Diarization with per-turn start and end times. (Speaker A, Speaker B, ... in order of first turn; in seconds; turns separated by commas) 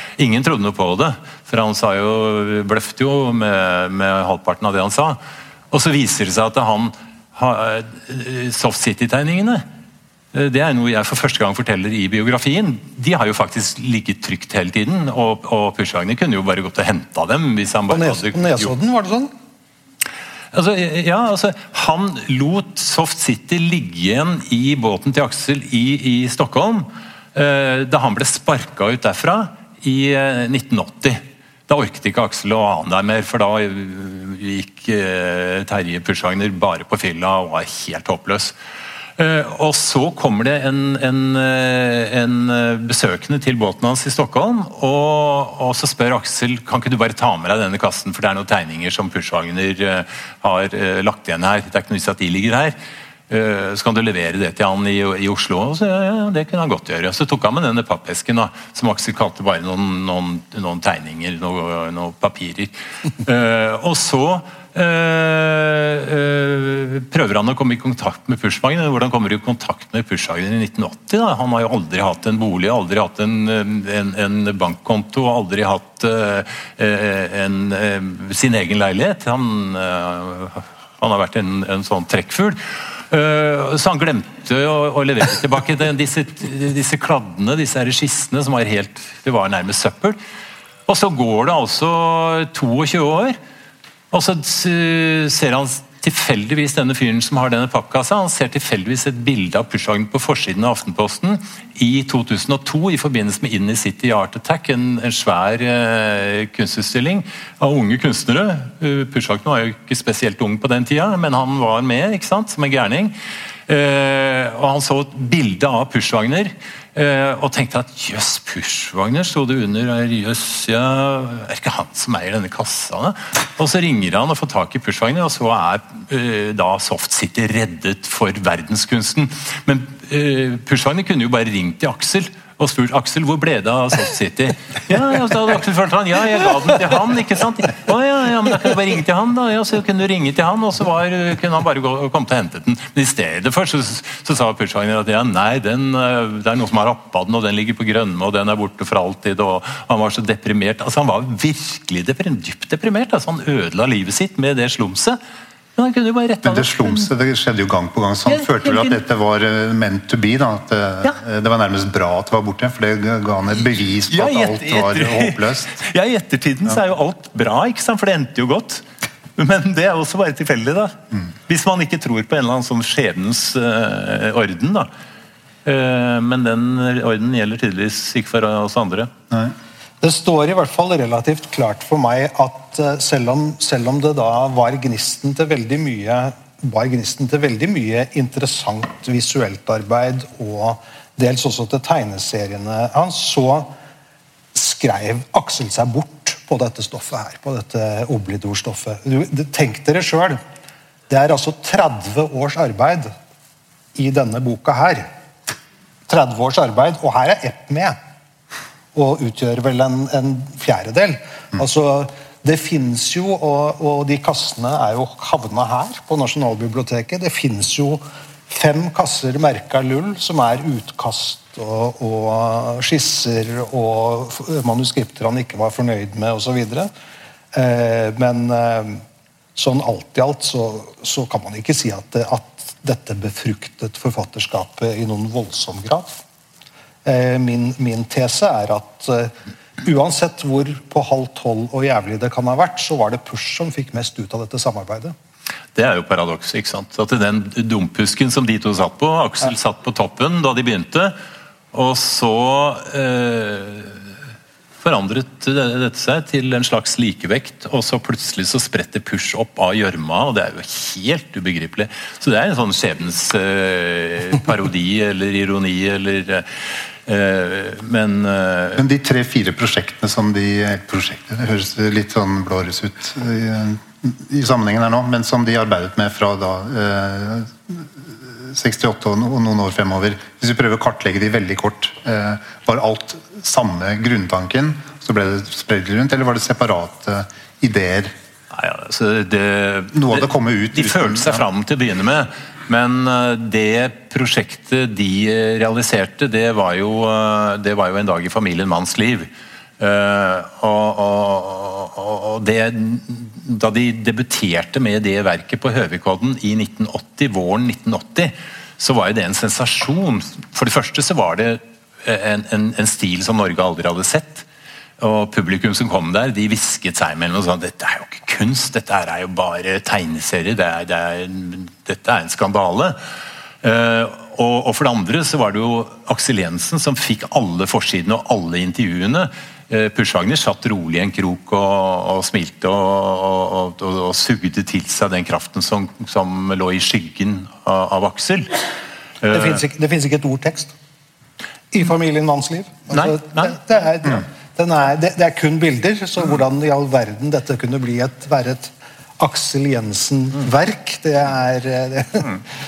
Speaker A: 0.2-5.2, Speaker A: 5.7-9.6, Speaker A: 10.3-18.7, Speaker B: 17.9-19.3, Speaker A: 20.5-38.5, Speaker A: 39.2-52.8, Speaker A: 53.3-90.2, Speaker A: 90.9-93.4, Speaker A: 94.1-113.1, Speaker A: 113.7-155.2, Speaker A: 155.8-157.1, Speaker C: 156.4-165.7, Speaker A: 158.3-159.0, Speaker A: 164.1-168.8, Speaker A: 169.3-174.9, Speaker A: 175.6-179.1, Speaker B: 180.0-193.7, Speaker B: 194.5-200.4, Speaker B: 201.1-203.1, Speaker B: 203.9-205.1, Speaker B: 206.1-208.0, Speaker B: 208.9-226.9, Speaker B: 227.5-229.0, Speaker B: 229.6-236.2, Speaker B: 237.0-245.1, Speaker A: 245.7-251.1, Speaker A: 251.7-254.0, Speaker A: 254.8-268.8, Speaker C: 268.8-288.1, Speaker A: 288.5-314.4, Speaker C: 289.9-291.4, Speaker A: 315.0-323.0, Speaker A: 323.6-338.6, Speaker A: 339.2-339.6, Speaker B: 339.3-340.7, Speaker B: 341.7-352.3, Speaker A: 342.9-343.5